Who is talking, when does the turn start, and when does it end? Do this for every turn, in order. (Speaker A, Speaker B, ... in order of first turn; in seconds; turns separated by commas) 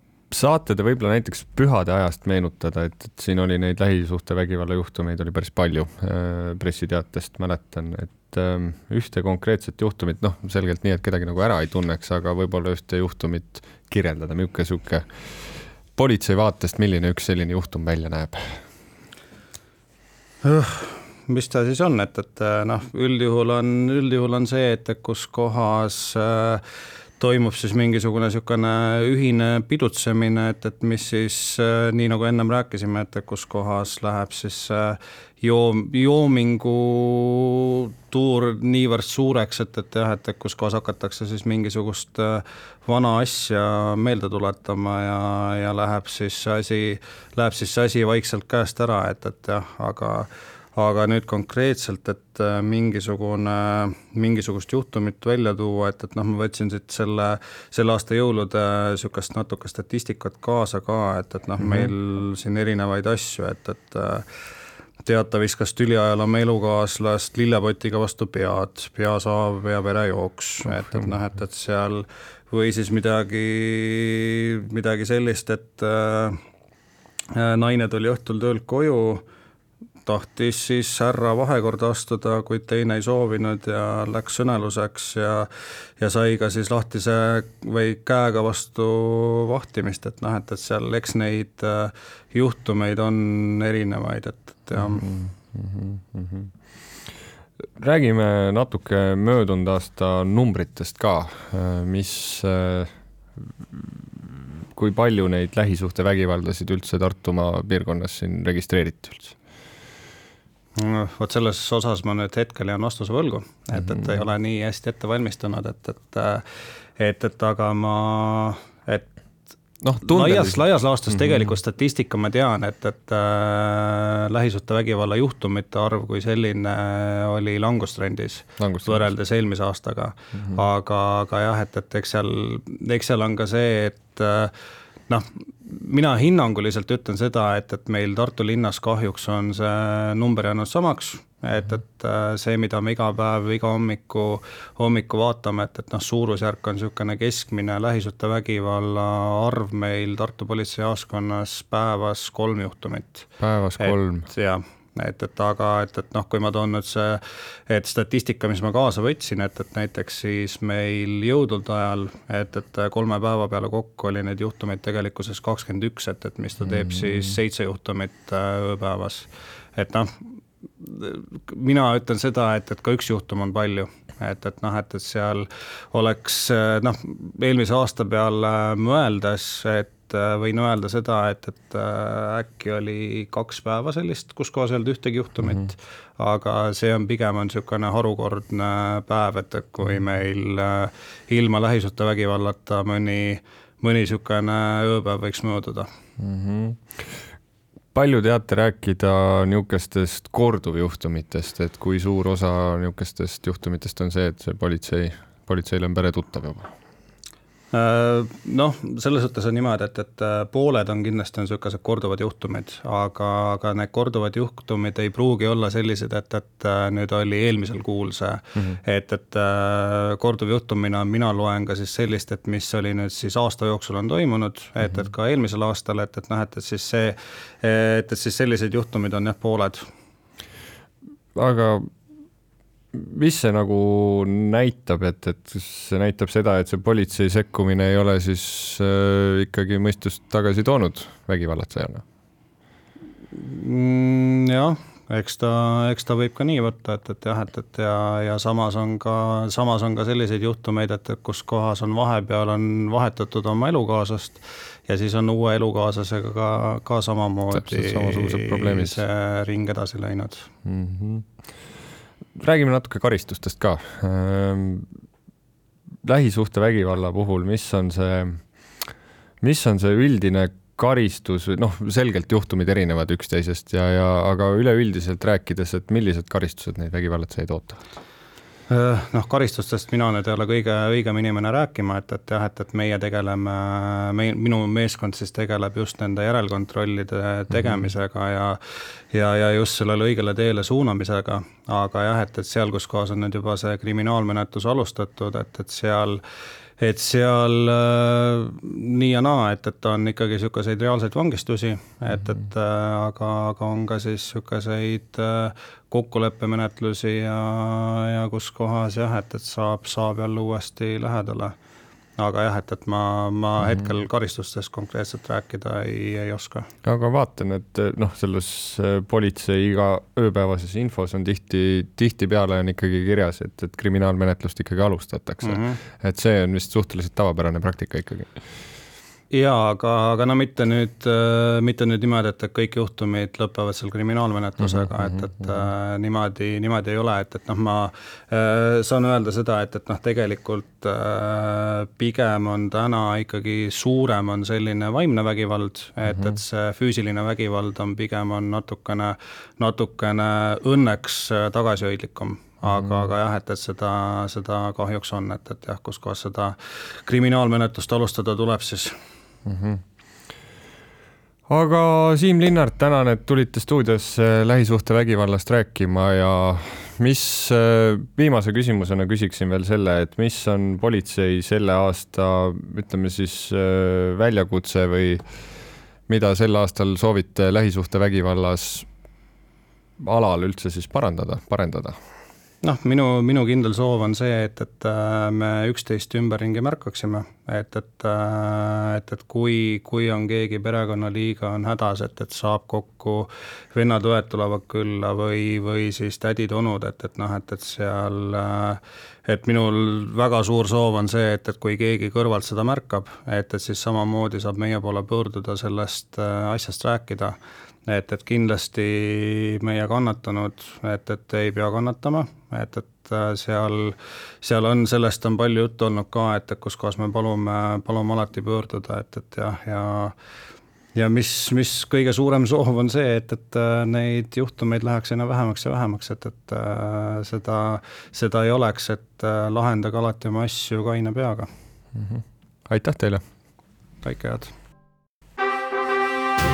Speaker A: 0.3-15.0, Speaker A: 15.9-18.4, Speaker B: 20.4-26.6, Speaker B: 27.2-64.2, Speaker B: 65.0-76.4, Speaker B: 77.3-79.2, Speaker B: 80.0-95.0, Speaker A: 94.8-96.5, Speaker A: 97.8-109.3, Speaker B: 110.8-116.4, Speaker B: 117.0-119.1, Speaker A: 119.8-121.5, Speaker B: 120.0-134.5, Speaker A: 128.6-129.1, Speaker B: 135.1-170.2, Speaker A: 153.4-154.2, Speaker B: 170.8-195.9, Speaker A: 196.2-196.8, Speaker A: 197.9-206.7, Speaker B: 207.7-229.8, Speaker A: 231.3-231.9, Speaker A: 232.9-242.0, Speaker B: 243.3-260.5, Speaker A: 257.5-259.0, Speaker A: 260.6-261.3, Speaker A: 262.4-264.9, Speaker A: 266.0-268.8, Speaker A: 269.4-277.8, Speaker B: 278.7-288.6, Speaker B: 289.1-296.2, Speaker B: 296.8-311.5, Speaker B: 312.2-316.7, Speaker A: 316.8-328.3, Speaker B: 325.4-325.8, Speaker B: 329.3-358.9, Speaker A: 352.6-352.9, Speaker A: 359.4-359.8, Speaker A: 361.5-375.2, Speaker A: 376.1-378.9, Speaker A: 380.0-381.9, Speaker B: 382.6-420.1, Speaker B: 420.9-431.5, Speaker A: 431.9-433.2, Speaker B: 434.0-434.5